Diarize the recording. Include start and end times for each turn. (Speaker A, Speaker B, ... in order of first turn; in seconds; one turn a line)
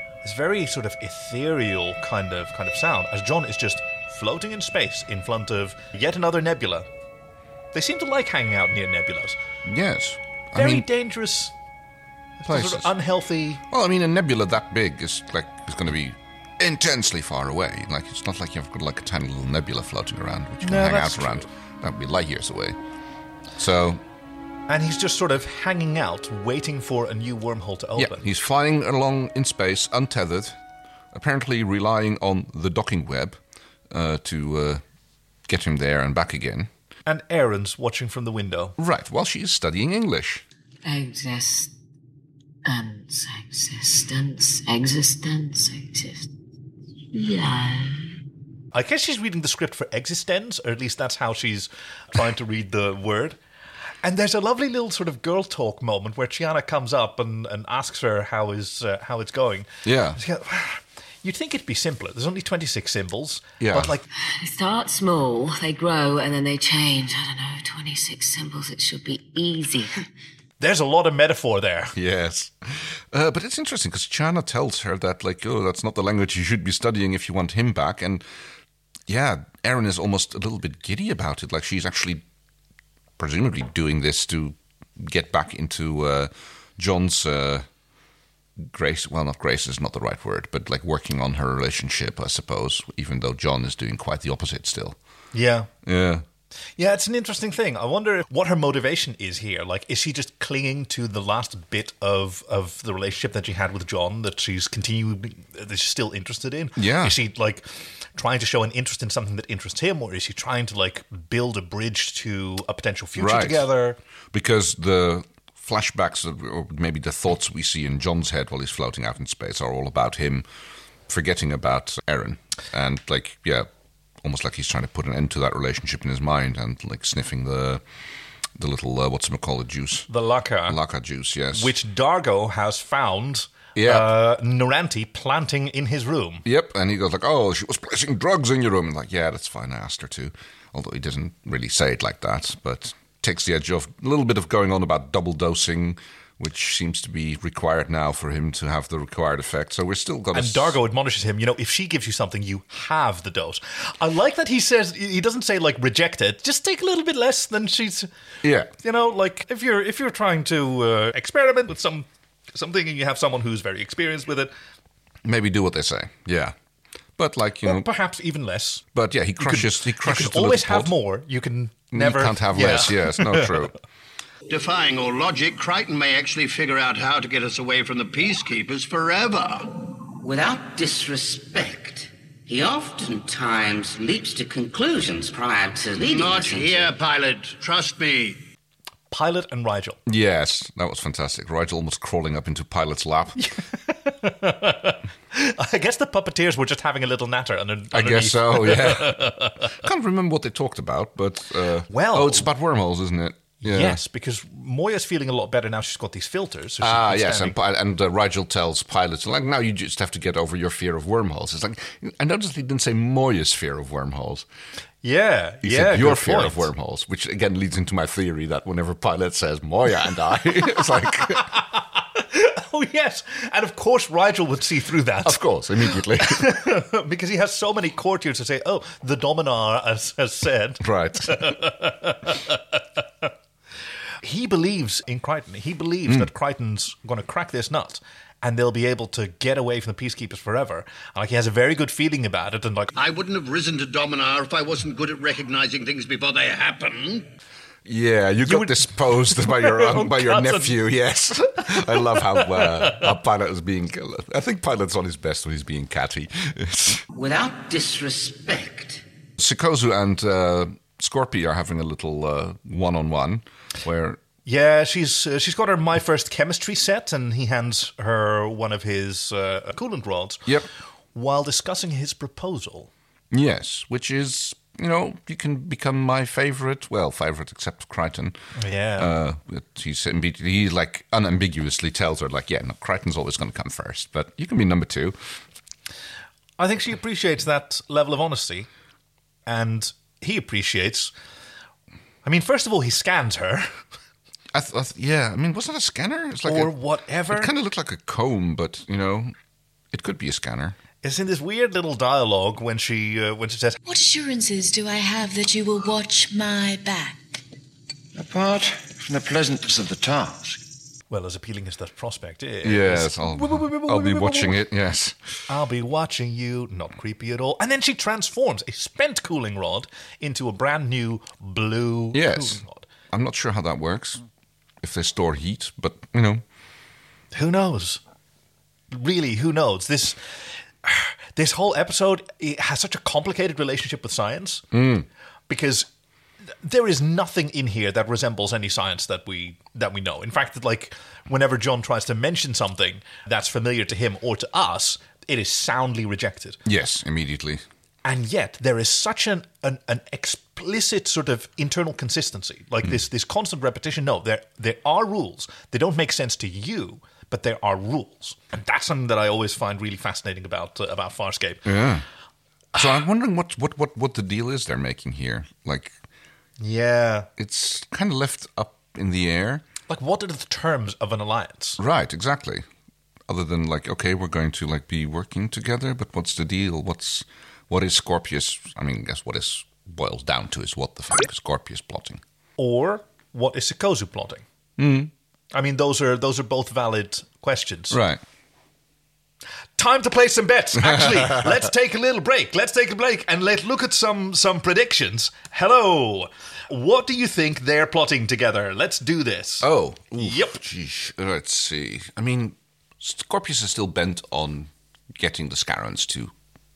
Speaker A: 0.2-6.9
Speaker A: 7.7-9.4
Speaker B: 9.6-10.9
Speaker A: 10.5-11.5
Speaker A: 12.4-13.6
Speaker B: 12.4-12.9
Speaker B: 13.7-22.8
Speaker A: 20.6-21.4
Speaker B: 23.6-24.0
Speaker A: 24.7-28.3
Speaker B: 28.0-30.6
Speaker B: 31.1-33.4
Speaker B: 33.9-34.8
Speaker B: 35.5-36.7
Speaker A: 37.0-38.7
Speaker B: 38.8-40.4
Speaker C: 40.8-41.7
Speaker C: 42.6-46.3
Speaker C: 47.1-48.1
Speaker A: 48.7-53.4
Speaker A: 54.0-64.0
Speaker B: 59.8-60.2
Speaker B: 63.6-63.9
Speaker C: 64.2-70.0
Speaker A: 70.6-71.9
Speaker B: 71.9-78.2
Speaker B: 79.1-82.2
Speaker B: 83.2-87.7
Speaker B: 88.6-95.0
Speaker A: 95.3-95.7
Speaker B: 95.8-96.2
Speaker A: 96.8-107.6
Speaker B: 106.8-107.1
Speaker A: 108.2-114.0
Speaker B: 113.2-113.7
Speaker B: 114.3-120.4
Speaker B: 121.1-123.7
Speaker B: 124.2-127.8
Speaker B: 128.6-130.1
Speaker A: 130.1-130.8
Speaker B: 130.7-131.7
Speaker A: 131.5-136.4
Speaker B: 133.7-134.2
Speaker B: 136.4-150.8
Speaker A: 150.3-158.1
Speaker B: 158.4-158.7
Speaker A: 158.8-164.5
Speaker B: 165.2-166.5
Speaker B: 167.2-167.9
Speaker A: 167.6-168.8
Speaker B: 168.9-170.9
Speaker A: 169.4-173.6
Speaker B: 171.9-173.7
Speaker D: 174.5-179.7
Speaker E: 180.2-186.9
Speaker D: 186.0-188.4
Speaker A: 189.1-190.0
Speaker B: 190.1-193.4
Speaker A: 193.4-199.7
Speaker B: 197.9-204.0
Speaker A: 201.9-202.5
Speaker A: 203.6-207.6
Speaker B: 206.8-214.4
Speaker A: 215.0-216.7
Speaker B: 215.6-221.5
Speaker A: 220.7-232.6
Speaker B: 225.2-226.6
Speaker B: 230.8-231.5
Speaker A: 234.2-242.9
Speaker D: 242.9-247.3
Speaker B: 247.8-257.0
Speaker A: 248.4-250.8
Speaker A: 251.6-253.1
Speaker E: 257.1-259.0
Speaker B: 259.4-264.2
Speaker A: 264.4-270.4
Speaker A: 271.1-272.9
Speaker B: 273.3-278.4
Speaker A: 278.6-279.1
Speaker B: 279.0-285.2
Speaker A: 286.6-288.7
Speaker A: 289.4-291.1
Speaker A: 292.2-293.7
Speaker B: 294.5-296.7
Speaker A: 296.4-297.5
Speaker B: 297.3-299.3
Speaker B: 299.9-300.8
Speaker A: 301.0-303.8
Speaker F: 303.9-307.1
Speaker G: 308.1-310.6
Speaker A: 311.1-314.6
Speaker B: 312.6-315.2
Speaker A: 315.5-322.9
Speaker B: 322.1-324.2
Speaker B: 324.8-326.4
Speaker A: 327.3-328.0
Speaker A: 328.9-334.6
Speaker B: 334.7-335.1
Speaker A: 335.5-335.9
Speaker A: 336.6-346.6
Speaker B: 346.6-347.6
Speaker A: 348.0-361.6
Speaker B: 361.6-362.0
Speaker B: 362.7-365.9
Speaker A: 366.6-367.3
Speaker B: 367.4-369.6
Speaker A: 369.9-371.8
Speaker B: 371.8-372.6
Speaker B: 373.3-382.2
Speaker A: 382.6-384.4
Speaker B: 384.8-385.1
Speaker A: 385.5-388.0
Speaker B: 387.9-388.2
Speaker A: 389.8-400.6
Speaker B: 390.8-391.6
Speaker B: 399.6-406.3